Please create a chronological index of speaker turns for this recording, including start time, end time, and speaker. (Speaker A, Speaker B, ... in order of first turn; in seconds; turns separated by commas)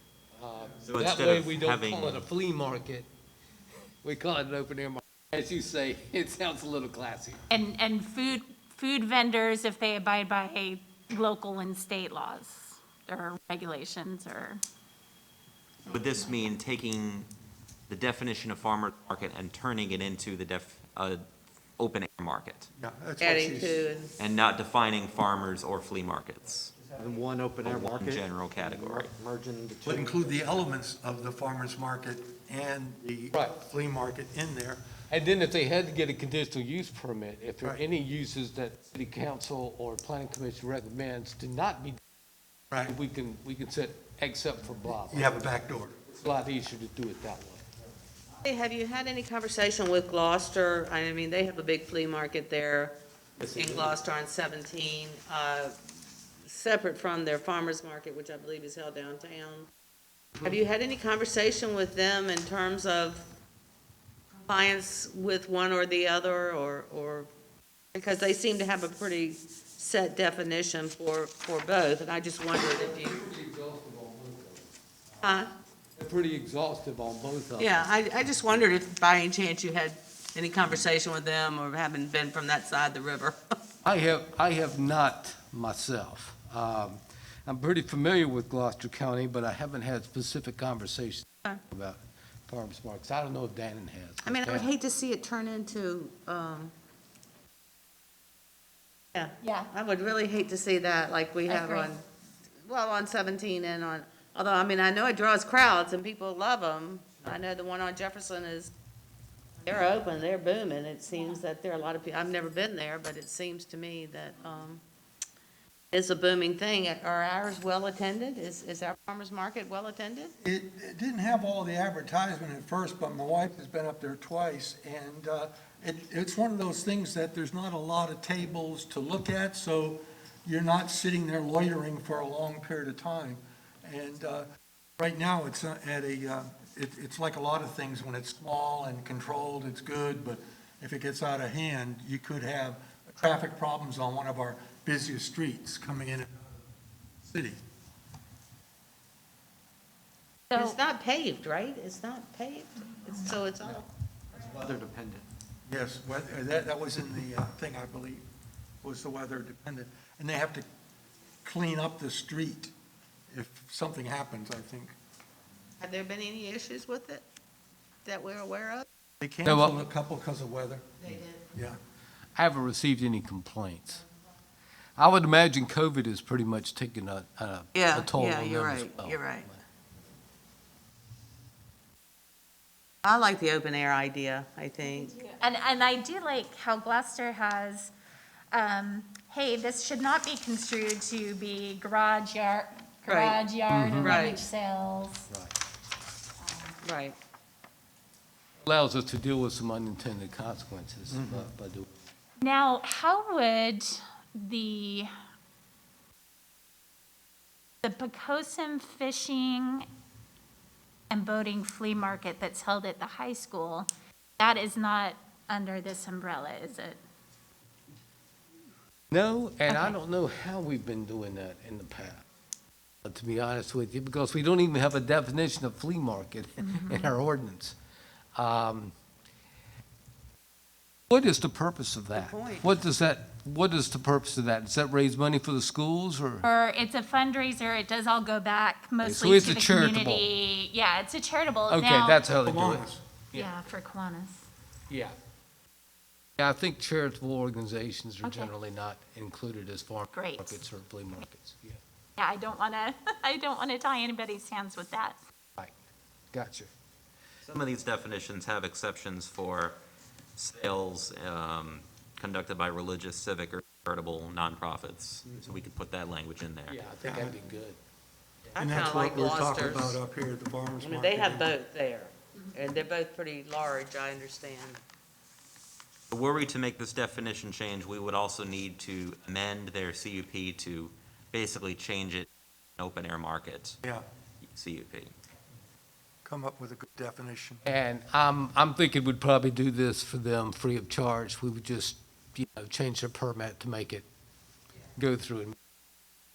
Speaker A: 0.4-3.1, Speaker B: 0.8-2.3, Speaker A: 4.0-7.4, Speaker C: 7.5-14.6, Speaker C: 15.9-16.4, Speaker B: 15.9-17.3, Speaker B: 17.9-21.2, Speaker B: 21.8-22.7, Speaker D: 22.8-23.8, Speaker E: 23.2-24.1, Speaker B: 24.2-26.7, Speaker F: 26.6-30.6, Speaker B: 27.6-29.1, Speaker D: 29.8-34.8, Speaker A: 35.1-42.0, Speaker D: 42.7-43.0, Speaker A: 42.9-47.6, Speaker D: 44.9-46.0, Speaker E: 48.4-53.0, Speaker A: 53.4-54.0, Speaker E: 53.5-55.8, Speaker E: 56.5-59.7, Speaker E: 60.4-63.3, Speaker E: 64.4-67.3, Speaker E: 67.9-73.2, Speaker A: 72.6-75.3, Speaker E: 75.2-75.5, Speaker A: 76.0-77.9, Speaker E: 77.6-83.5, Speaker A: 83.8-94.7, Speaker E: 94.2-96.7, Speaker E: 99.2-102.0, Speaker C: 99.4-99.7, Speaker C: 101.5-101.9, Speaker E: 102.7-108.7, Speaker E: 109.7-114.8, Speaker E: 115.9-120.3, Speaker D: 120.4-134.5, Speaker D: 135.0-146.6, Speaker D: 147.2-147.6, Speaker E: 150.5-153.9, Speaker C: 150.5-150.8, Speaker F: 154.3-155.3, Speaker D: 155.7-158.2, Speaker D: 158.8-160.7, Speaker D: 161.4-162.7, Speaker D: 163.3-164.9, Speaker E: 165.8-167.2, Speaker E: 168.1-168.9, Speaker D: 169.2-171.0, Speaker A: 169.4-169.8, Speaker E: 171.0-171.5, Speaker D: 171.5-171.8, Speaker A: 172.4-174.0, Speaker A: 175.0-179.6, Speaker E: 177.8-179.5, Speaker E: 183.0-185.2, Speaker C: 185.1-187.9, Speaker C: 188.5-195.3, Speaker E: 193.1-193.4, Speaker A: 193.7-194.2, Speaker E: 194.0-194.4, Speaker A: 195.3-195.5, Speaker E: 196.8-197.2, Speaker A: 198.6-201.9, Speaker D: 201.1-201.5, Speaker C: 202.4-205.1, Speaker C: 207.8-209.9, Speaker C: 211.1-217.0, Speaker A: 219.1-222.2, Speaker C: 219.7-220.0, Speaker A: 223.0-227.8, Speaker C: 226.6-227.2, Speaker A: 228.4-228.9, Speaker A: 231.1-236.5, Speaker E: 232.1-232.8, Speaker C: 236.4-242.2, Speaker A: 239.0-240.3, Speaker A: 241.7-243.5, Speaker D: 242.4-243.0, Speaker C: 243.3-244.5, Speaker A: 244.9-245.2, Speaker A: 246.4-251.8, Speaker C: 248.2-248.5, Speaker C: 250.1-250.6, Speaker C: 252.2-255.2, Speaker A: 256.3-256.7, Speaker B: 257.4-259.8, Speaker B: 260.4-266.8, Speaker A: 266.7-267.8, Speaker D: 267.0-267.4, Speaker E: 268.6-270.0, Speaker D: 268.6-271.6, Speaker E: 270.8-274.8, Speaker B: 276.1-283.8, Speaker B: 284.4-285.1, Speaker D: 286.2-287.6, Speaker A: 287.7-294.1, Speaker A: 295.0-295.6